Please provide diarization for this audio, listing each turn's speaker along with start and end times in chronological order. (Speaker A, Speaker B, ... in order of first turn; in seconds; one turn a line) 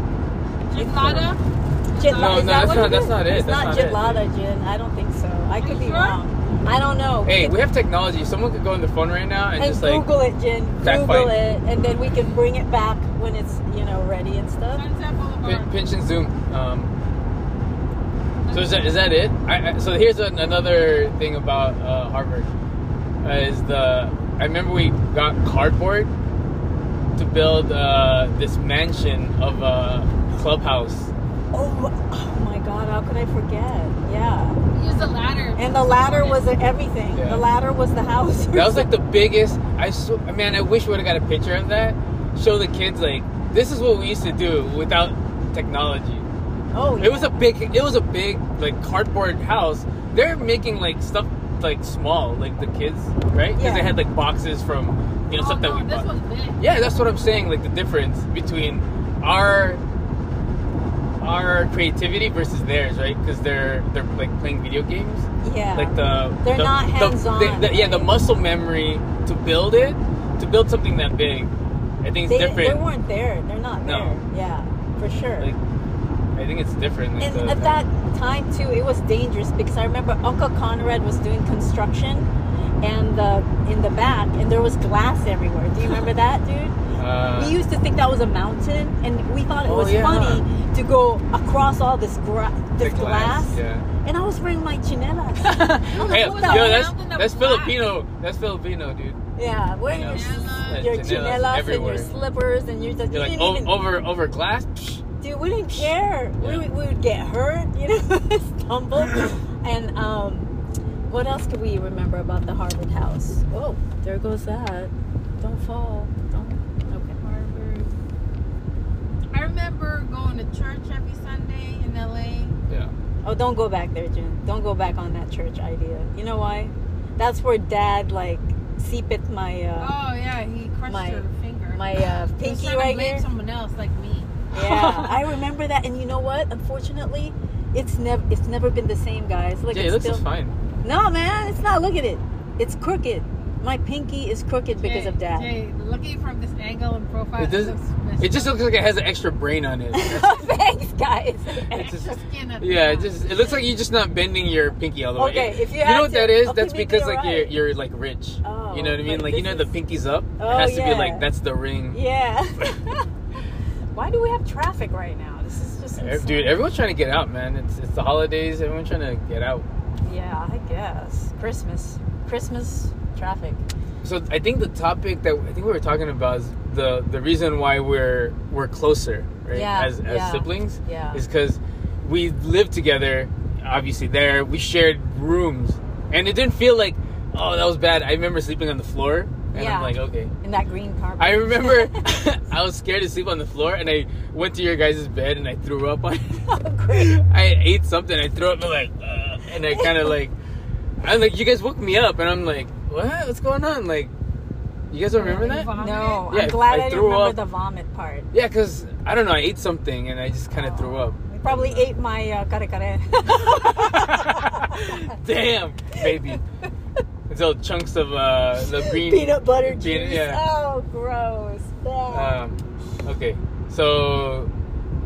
Speaker A: 0.7-3.1
Speaker B: 0.7-1.3
Speaker C: 1.9-7.5
Speaker B: 2.1-4.2
Speaker A: 5.6-6.2
Speaker B: 7.2-10.1
Speaker C: 9.6-14.8
Speaker B: 10.8-11.3
Speaker A: 14.7-15.7
Speaker B: 15.4-16.9
Speaker A: 18.4-18.9
Speaker B: 18.5-22.5
Speaker B: 23.2-26.1
Speaker B: 27.1-31.1
Speaker C: 31.5-34.6
Speaker A: 34.7-36.5
Speaker C: 35.6-38.9
Speaker B: 37.1-37.4
Speaker B: 38.5-46.2
Speaker C: 46.7-47.4
Speaker B: 47.0-56.1
Speaker C: 53.5-54.0
Speaker A: 55.3-56.6
Speaker B: 56.6-59.8
Speaker B: 61.2-71.5
Speaker C: 65.4-68.1
Speaker B: 72.0-72.8
Speaker C: 72.2-75.5
Speaker B: 73.8-74.2
Speaker B: 76.3-77.8
Speaker C: 77.2-82.3
Speaker C: 82.8-86.8
Speaker B: 87.0-87.6
Speaker C: 87.3-96.9
Speaker B: 89.6-90.4
Speaker B: 92.8-93.8
Speaker B: 95.4-99.2
Speaker A: 95.9-97.8
Speaker C: 99.3-103.7
Speaker B: 99.8-102.1
Speaker A: 100.1-100.9
Speaker B: 103.1-105.0
Speaker C: 105.2-110.5
Speaker B: 105.7-106.6
Speaker C: 111.1-117.2
Speaker A: 117.2-117.9
Speaker A: 119.3-122.5
Speaker C: 123.2-129.9
Speaker A: 129.8-134.3
Speaker C: 130.9-133.3
Speaker C: 134.5-140.2
Speaker B: 134.6-135.2
Speaker B: 139.7-140.6
Speaker C: 140.8-145.5
Speaker A: 144.8-148.6
Speaker B: 147.4-150.4
Speaker C: 149.9-151.7
Speaker B: 151.7-162.0
Speaker A: 151.7-153.2
Speaker C: 155.2-157.6
Speaker C: 158.4-159.7
Speaker C: 160.4-161.2
Speaker C: 161.9-163.0
Speaker C: 163.9-166.6
Speaker B: 166.0-169.6
Speaker C: 170.0-173.6
Speaker B: 174.0-190.3
Speaker C: 179.5-181.2
Speaker C: 189.5-192.0
Speaker B: 191.2-200.3
Speaker C: 196.3-197.2
Speaker C: 199.7-200.1
Speaker B: 201.0-204.1
Speaker B: 204.9-205.7
Speaker A: 205.2-206.3
Speaker C: 205.2-208.3
Speaker B: 206.3-207.4
Speaker B: 208.3-211.9
Speaker C: 210.5-215.1
Speaker B: 213.3-216.4
Speaker C: 215.9-216.3
Speaker B: 217.3-220.4
Speaker C: 218.7-222.4
Speaker B: 222.1-224.5